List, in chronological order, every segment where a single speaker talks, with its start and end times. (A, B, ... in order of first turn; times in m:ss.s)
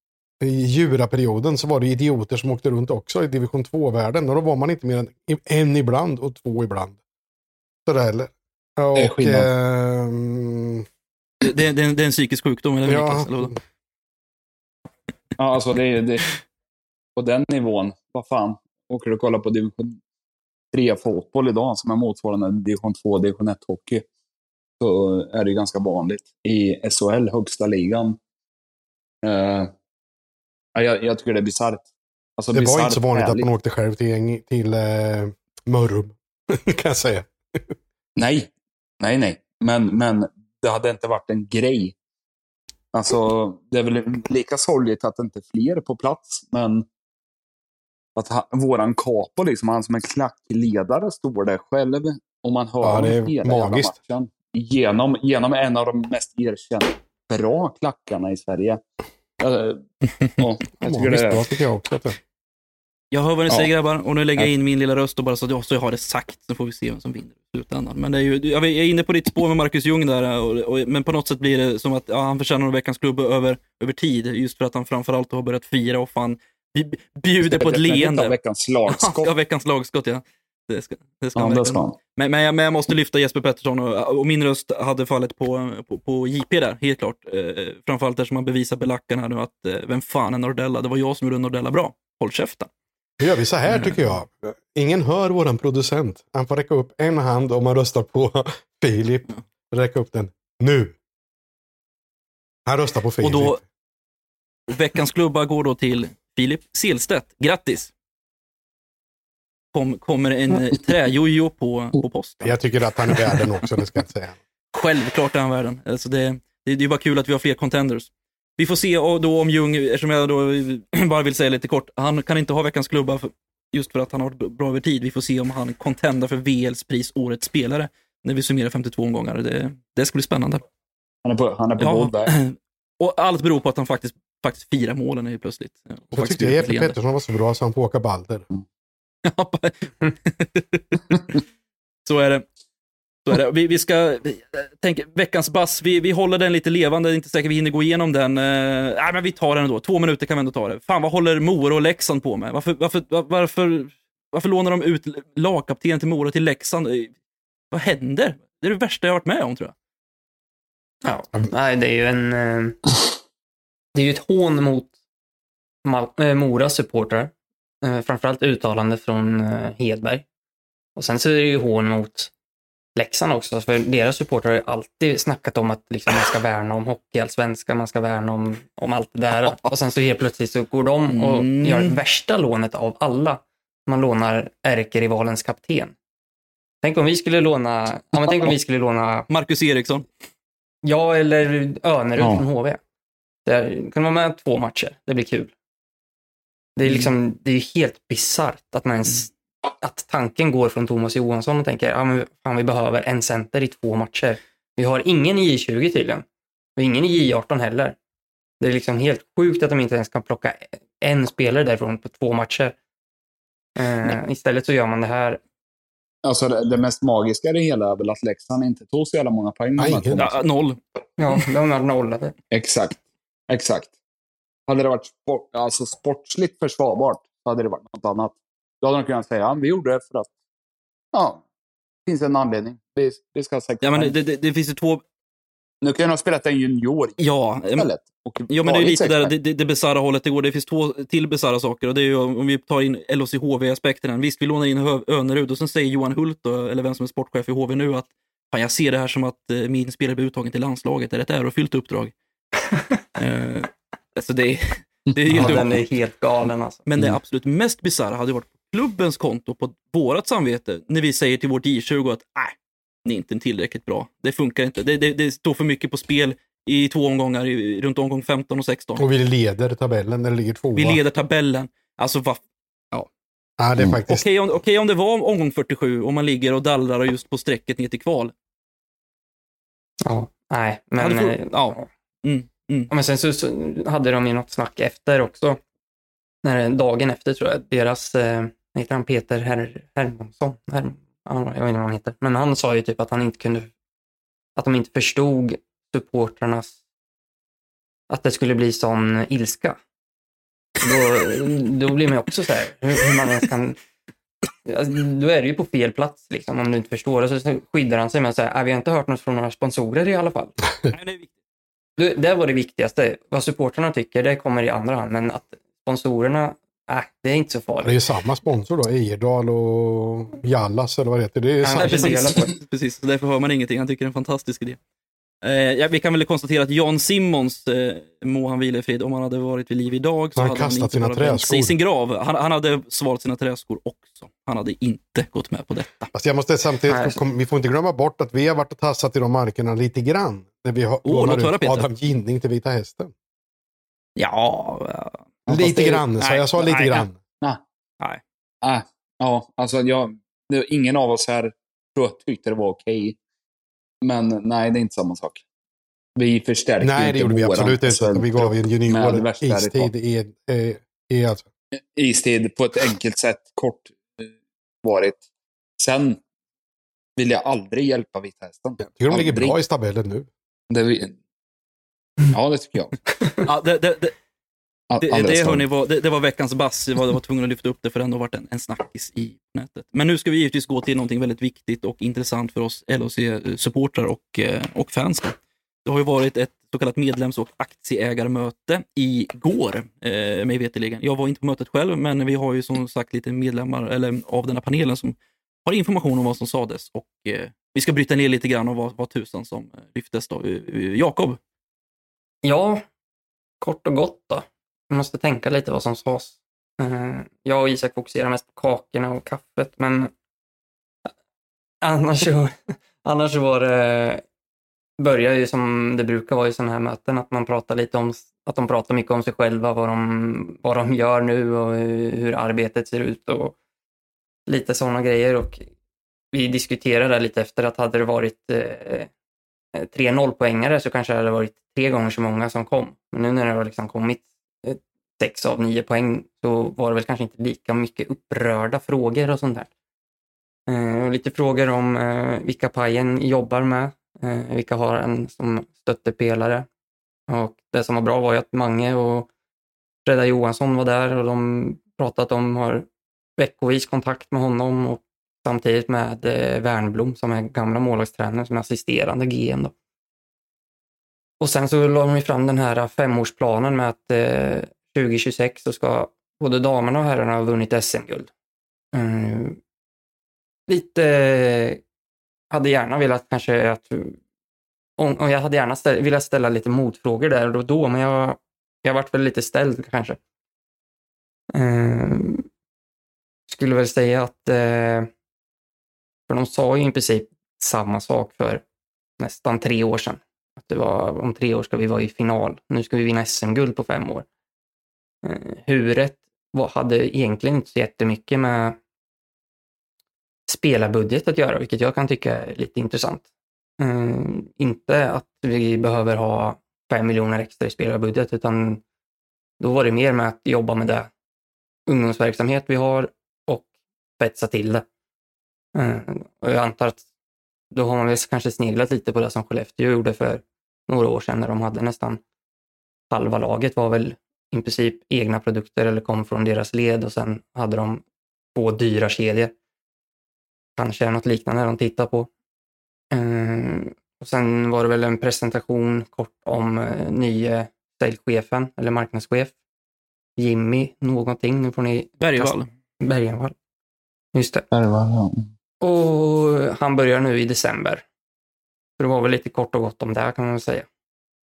0:00.4-0:07.0 A
0:07.9-0:10.8 A
0:09.0-0:09.5 B
0:11.4-0:13.6 C
0:12.9-0:13.5 A
0:15.4-0:16.3 B
0:17.2-0:20.0 B
0:20.7-0:24.0 B
0:24.8-0:28.2 B
0:29.2-0:29.7 B
0:30.8-0:33.5 B
0:32.5-0:37.8 A
0:38.2-0:42.0 B
0:42.9-0:46.9 B
0:48.2-0:58.8 B
0:52.8-0:53.9 A
0:59.4-1:01.4 B
1:00.8-1:02.2 A
1:03.1-1:18.4 C
1:17.4-1:19.3 B
1:18.9-1:32.7 C
1:21.4-1:22.0 B
1:33.2-1:41.0 A
1:33.7-1:34.1 C
1:42.7-1:43.6 A
1:43.2-1:43.6 C
1:44.7-1:47.9 C
1:49.7-1:53.5 C
1:52.4-1:54.4 A
1:54.7-2:10.6 C
2:11.2-2:12.3 B
2:11.8-2:17.0 C
2:16.1-2:18.5 A
2:19.2-2:21.0 C
2:22.0-2:22.4 C
2:23.2-2:37.1 C
2:37.7-2:39.7 C
2:41.0-2:42.8 D
2:43.9-2:44.9 D
2:45.8-2:47.3 D
2:47.8-2:50.3 D
2:51.0-2:52.3 D
2:53.0-3:06.0 D
3:01.1-3:02.0 C
3:06.8-3:09.3 D
3:09.3-3:10.1 C
3:10.8-3:12.8 D
3:12.2-3:12.4 B
3:13.5-3:15.5 D
3:16.8-3:26.3 D
3:26.8-3:28.0 D
3:28.6-3:32.8 D
3:33.8-3:35.4 D
3:36.2-3:40.4 B
3:39.8-3:40.2 A
3:40.1-3:40.8 C
3:41.2-3:42.4 D
3:42.5-3:43.9 B
3:44.7-3:50.3 B
3:51.1-3:51.4 B
3:52.1-3:54.1 B
3:53.8-3:55.0 C
3:55.8-3:57.2 B
3:57.2-3:57.9 C
3:57.8-3:59.3 B
3:58.5-4:12.1 C
4:13.2-4:15.8 C
4:15.2-4:15.7 B
4:15.3-4:16.8 D
4:16.9-4:29.0 C
4:29.0-4:31.0 A
4:30.8-4:33.1 C
4:33.6-4:34.2 A
4:34.1-4:38.3 C
4:40.0-4:41.9 D
4:41.0-4:42.9 C
4:42.9-4:45.6 D
4:46.4-4:53.7 D
4:54.6-4:56.8 D
4:58.1-4:59.8 D
5:00.8-5:03.8 D
5:04.6-5:10.5 D
5:10.9-5:11.3 C
5:12.0-5:18.0 D
5:17.8-5:22.5 A
5:21.6-5:22.5 D
5:21.8-5:24.8 C
5:25.4-5:36.1 C
5:30.4-5:31.8 A
5:36.1-5:43.1 A
5:36.9-5:37.2 D
5:41.0-5:41.9 C
5:44.2-5:45.3 C
5:45.5-5:47.6 B
5:45.5-5:47.2 A
5:48.6-5:53.2 B
5:54.0-5:55.4 B
5:56.2-5:59.9 B
5:56.8-6:01.5 A
6:01.7-6:05.2 B
6:05.8-6:06.2 B
6:07.2-6:09.6 B
6:08.8-6:10.3 A
6:10.7-6:11.2 B
6:12.3-6:13.0 B
6:13.4-6:14.2 C
6:14.9-6:15.6 B
6:15.0-6:41.4 C
6:42.4-6:42.9 D
6:43.6-6:50.1 D
6:51.8-6:54.2 D
6:55.0-7:03.6 D
7:04.5-7:05.7 D
7:06.3-7:09.1 D
7:09.8-7:19.7 D
7:20.7-7:26.7 D
7:27.3-7:29.3 D
7:30.0-7:32.9 D
7:33.4-7:39.7 D
7:41.4-7:48.3 D
7:48.9-7:49.6 D
7:50.7-7:51.8 D
7:52.5-7:54.2 D
7:55.0-8:00.2 D
8:01.5-8:02.5 D
8:03.5-8:05.1 D
8:06.3-8:08.6 D
8:09.2-8:14.3 D
8:15.2-8:18.8 D
8:20.5-8:23.2 D
8:23.8-8:28.8 D
8:29.6-8:31.1 D
8:31.9-8:33.7 D
8:34.2-8:34.9 D
8:35.8-8:37.0 D
8:37.7-8:42.2 D
8:43.1-8:48.0 D
8:48.6-8:49.5 D
8:50.8-8:52.3 D
8:53.1-8:59.5 D
9:00.4-9:03.6 D
9:02.2-9:02.7 C
9:04.3-9:04.7 D
9:04.7-9:05.5 B
9:05.8-9:08.0 D
9:09.0-9:10.9 D